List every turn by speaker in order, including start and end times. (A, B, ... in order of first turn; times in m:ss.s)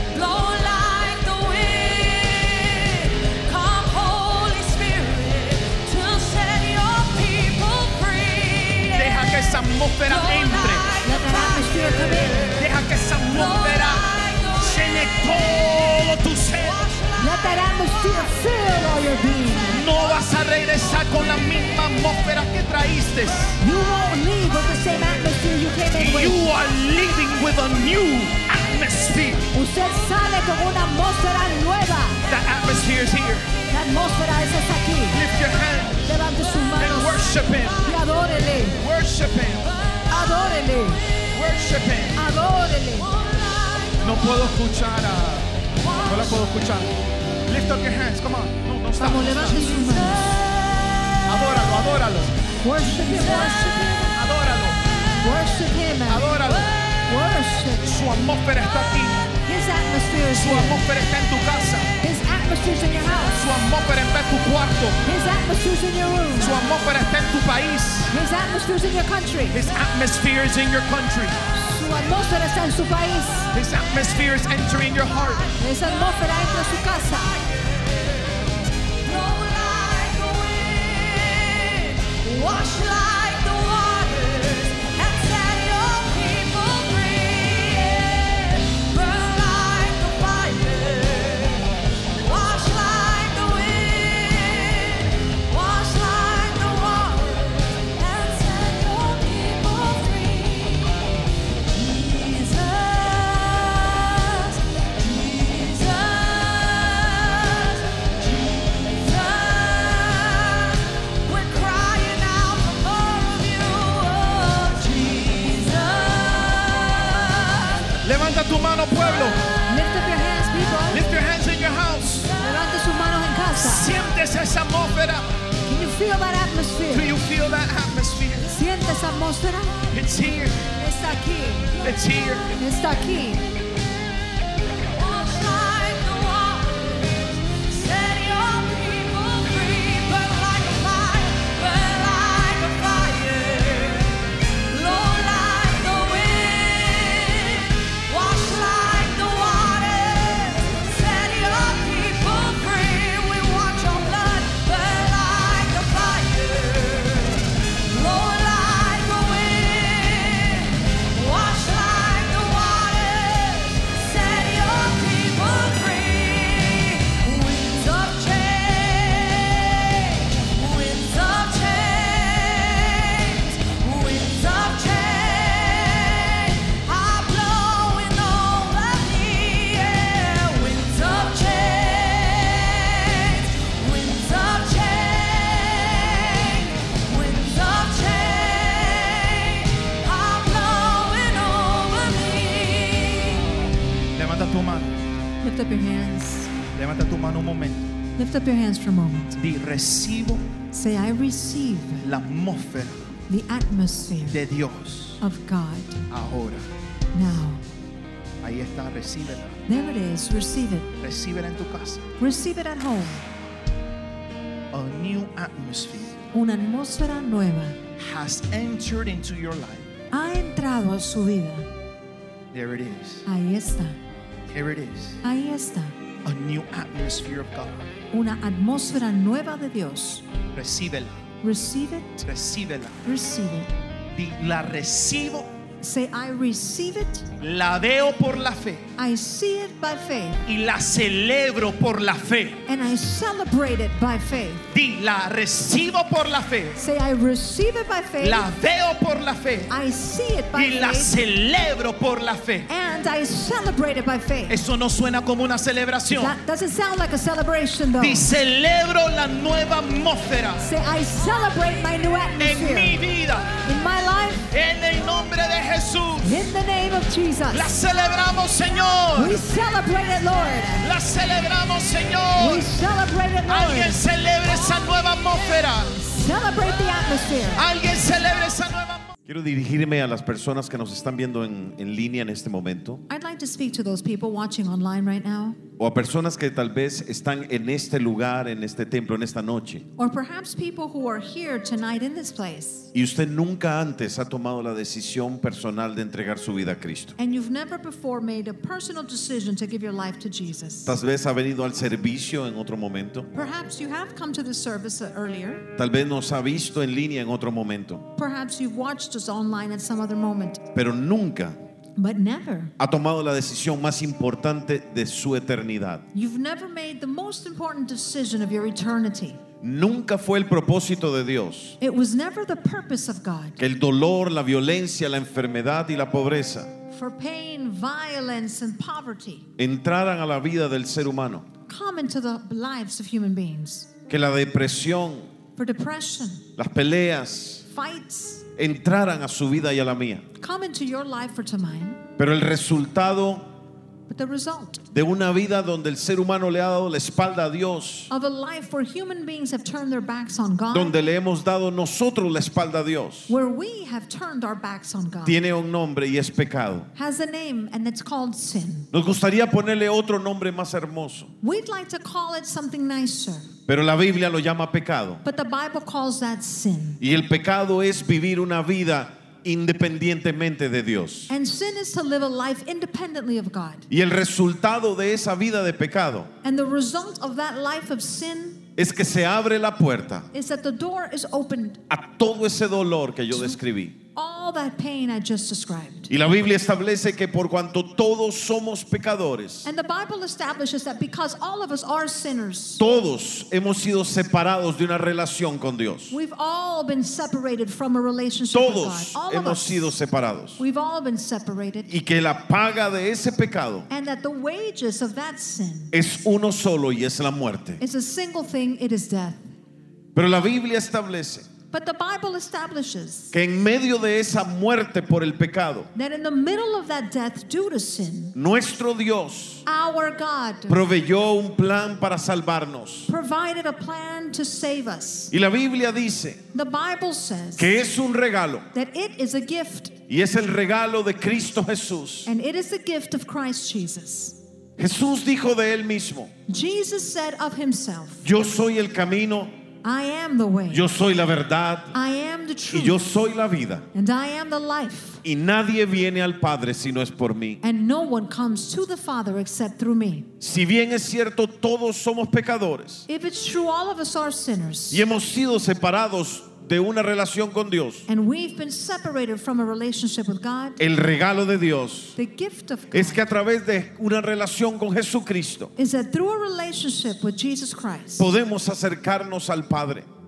0:00.1-0:09.2 A
0:08.9-0:10.9 B
0:10.1-0:12.6 A
0:11.0-0:12.5 C
0:12.6-0:14.0 B
0:13.3-0:15.9 A
0:14.6-0:16.9 B
0:16.7-0:18.3 A
0:17.2-0:19.8 C
0:19.7-0:23.6 B
0:23.6-0:26.4 C
0:25.9-0:29.5 B
0:29.5-0:32.2 C
0:32.3-0:33.5 B
0:33.7-0:35.2 C
0:35.1-0:36.1 B
0:36.0-0:37.2 C
0:36.8-0:37.9 B
0:37.8-0:38.8 C
0:38.8-0:39.7 B
0:40.1-0:41.0 C
0:41.3-0:42.2 B
0:42.2-0:43.1 C
0:43.0-0:44.2 A
0:44.0-0:45.5 B
0:45.8-0:46.4 A
0:46.0-0:46.9 B
0:47.5-0:49.7 B
0:49.0-0:50.4 C
0:49.5-0:51.3 A
0:51.3-0:52.3 B
0:52.6-0:54.1 C
0:52.7-0:53.8 A
0:54.1-0:54.8 B
0:55.2-0:56.3 C
0:56.1-0:56.7 B
0:56.5-0:57.1 A
0:57.1-0:57.9 C
0:57.8-0:59.2 B
0:59.4-1:00.8 C
1:00.3-1:01.9 B
1:02.0-1:03.4 C
1:03.3-1:05.0 B
1:05.0-1:06.6 C
1:06.4-1:08.1 B
1:08.1-1:09.6 C
1:09.5-1:11.4 B
1:11.5-1:13.5 C
1:13.5-1:15.4 B
1:15.4-1:17.8 A
1:15.6-1:17.3 C
1:19.0-1:40.9 A
1:41.7-1:57.9 A
1:58.0-1:59.4 B
1:59.7-2:01.0 C
2:00.9-2:02.3 B
2:02.3-2:02.7 A
2:02.4-2:03.9 C
2:03.6-2:05.3 B
2:05.7-2:07.1 C
2:06.9-2:08.5 B
2:08.5-2:09.8 C
2:09.9-2:10.7 B
2:10.8-2:11.7 C
2:11.8-2:12.5 B
2:12.6-2:13.4 C
2:14.9-3:13.5 A
3:14.1-3:15.0 B
3:15.4-3:16.5 C
3:16.8-3:17.9 B
3:18.2-3:19.4 C
3:19.4-3:20.4 B
3:20.7-3:22.1 C
3:22.0-3:23.0 B
3:23.3-3:24.4 C
3:24.3-3:25.2 B
3:25.2-3:26.0 C
3:26.1-3:26.7 B
3:27.1-3:27.6 C
3:28.4-3:29.6 B
3:29.7-3:30.9 C
3:31.0-3:32.1 B
3:32.2-3:33.2 C
3:34.7-3:36.2 B
3:36.3-3:37.8 C
3:38.0-3:39.9 B
3:40.1-3:41.7 C
3:42.5-3:43.2 B
3:43.2-3:44.0 C
3:44.5-3:45.2 B
3:45.2-3:45.9 C
3:46.2-3:47.8 B
3:48.1-3:50.2 C
3:50.5-3:51.1 B
3:51.4-3:52.3 C
3:52.2-3:53.0 B
3:53.0-3:53.7 C
3:54.1-3:55.5 B
3:55.8-3:57.3 C
3:57.4-3:58.9 B
3:59.0-4:00.4 C
4:00.4-4:02.6 B
4:02.6-4:04.6 C
4:04.7-4:06.8 B
4:06.8-4:08.5 C
4:08.2-4:09.7 B
4:09.7-4:11.1 C
4:10.5-4:12.7 B
4:12.7-4:14.6 C
4:14.5-4:16.4 B
4:16.1-4:18.2 C
4:18.0-4:20.7 B
4:20.6-4:23.0 C
4:22.4-4:23.5 B
4:23.6-4:24.4 C
4:24.5-4:26.4 B
4:26.2-4:27.7 C
4:27.5-4:29.4 B
4:29.2-4:30.9 C
4:30.8-4:32.7 B
4:32.4-4:34.0 C
4:33.5-4:36.0 B
4:36.0-4:37.6 C
4:37.5-4:39.1 B
4:39.2-4:43.0 D
4:43.1-4:45.6 C
4:45.8-4:49.8 D
4:50.0-4:52.9 C
4:52.9-4:57.1 D
4:57.2-5:01.0 C
5:00.8-5:03.3 D
5:03.3-5:05.7 C
5:05.8-5:08.0 D
5:08.1-5:10.7 C
5:10.7-5:11.6 D
5:12.0-5:12.7 C
5:12.8-5:16.0 D
5:16.1-5:19.4 C
5:19.6-5:21.8 D
5:21.8-5:23.6 C
5:23.6-5:26.7 D
5:26.9-5:29.5 C
5:29.6-5:31.4 D
5:31.7-5:33.9 C
5:34.1-5:35.3 D
5:35.6-5:36.4 C
5:36.6-5:37.6 D
5:37.6-5:38.4 C
5:38.6-5:40.2 D
5:40.4-5:42.0 C
5:42.2-5:43.4 D
5:44.1-5:44.8 C
5:44.9-5:48.1 D
5:48.1-5:50.9 C
5:50.7-5:53.3 D
5:53.3-5:55.4 C
5:55.2-5:56.9 D
5:56.9-5:58.9 C
5:58.9-6:01.3 D
6:01.4-6:03.5 C
6:03.7-6:05.2 D
6:05.2-6:07.0 C
6:07.0-6:11.3 D
6:11.3-6:13.9 C
6:13.9-6:16.3 D
6:16.4-6:18.6 C
6:18.8-6:20.3 D
6:20.3-6:21.8 C
6:21.9-6:24.0 D
6:23.3-6:23.6 C
6:24.1-6:26.1 C
6:26.1-6:29.6 D
6:29.6-6:32.8 C
6:32.8-6:36.1 D
6:36.1-6:39.9 C
6:38.5-6:40.6 D
6:40.6-6:41.9 C
6:41.9-6:43.9 D
6:43.9-6:45.9 C
6:45.9-6:47.8 D
6:47.8-6:49.4 C
6:50.1-6:51.5 D
6:51.7-6:53.3 C
6:53.3-6:55.9 D
6:55.9-6:58.3 C
6:58.3-6:59.6 D
6:59.6-7:00.8 C
7:00.7-7:03.1 D
7:03.1-7:05.3 C
7:05.3-7:06.4 D
7:06.5-7:07.7 C
7:07.6-7:08.7 D
7:08.7-7:10.0 C
7:10.1-7:12.3 D
7:12.2-7:14.4 C
7:14.8-7:16.3 D
7:16.5-7:18.2 C
7:18.2-7:19.5 D
7:19.8-7:20.8 C
7:20.7-7:21.9 D
7:21.9-7:23.0 C
7:22.7-7:23.8 D
7:23.9-7:25.2 C
7:25.2-7:27.6 D
7:27.6-7:30.3 C
7:30.4-7:33.0 D
7:33.1-7:35.0 C
7:34.9-7:38.0 D
7:38.1-7:40.8 C
7:40.8-7:42.1 D
7:42.2-7:43.2 C
7:42.9-7:45.7 D
7:45.8-7:48.3 C
7:48.2-7:50.1 D